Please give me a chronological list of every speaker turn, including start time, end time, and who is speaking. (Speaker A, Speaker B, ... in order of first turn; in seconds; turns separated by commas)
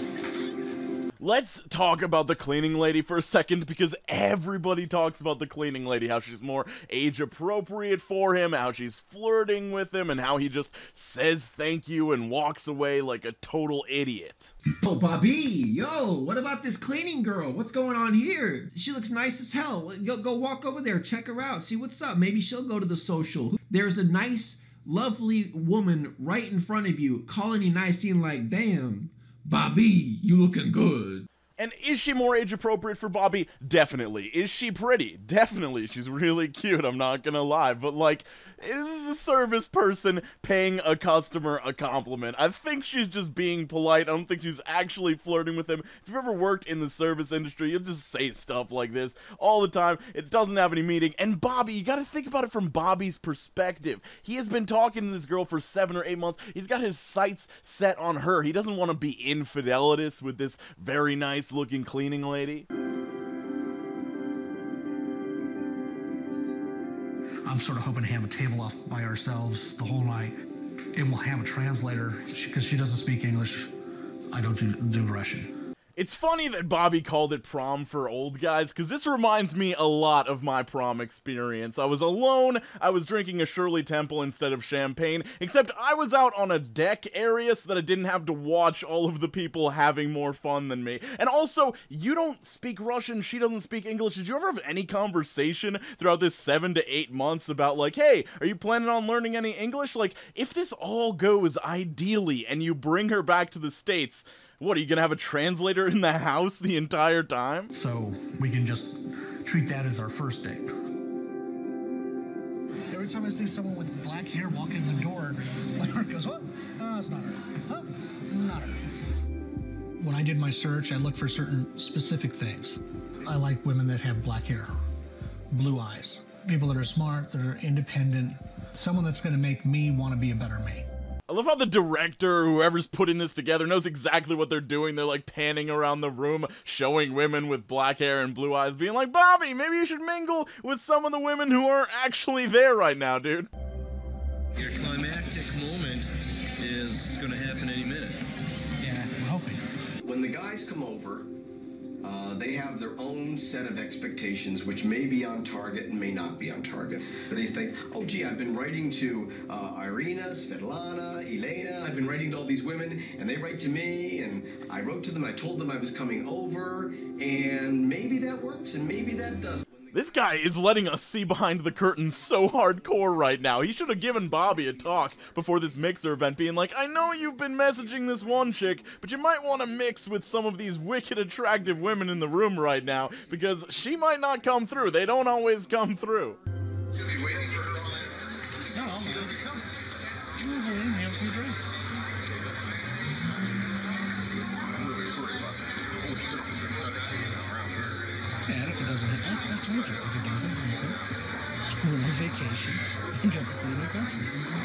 Speaker A: 1.2-14.5, Speaker B: 14.8-31.3, Speaker A: 31.6-62.7, Speaker C: 67.5-70.3, Speaker C: 71.0-73.7, Speaker C: 74.3-75.5, Speaker A: 76.0-107.7, Speaker C: 107.7-110.7, Speaker C: 112.9-118.8, Speaker C: 120.0-124.7, Speaker C: 125.5-130.9, Speaker A: 131.3-143.5, Speaker D: 144.6-146.1, Speaker D: 146.6-148.1, Speaker C: 148.8-149.6, Speaker E: 150.0-151.3, Speaker E: 152.0-169.9, Speaker A: 169.9-186.4, Speaker C: 188.7-189.7, Speaker C: 190.4-191.8, Speaker C: 198.4-201.0, Speaker C: 201.8-204.3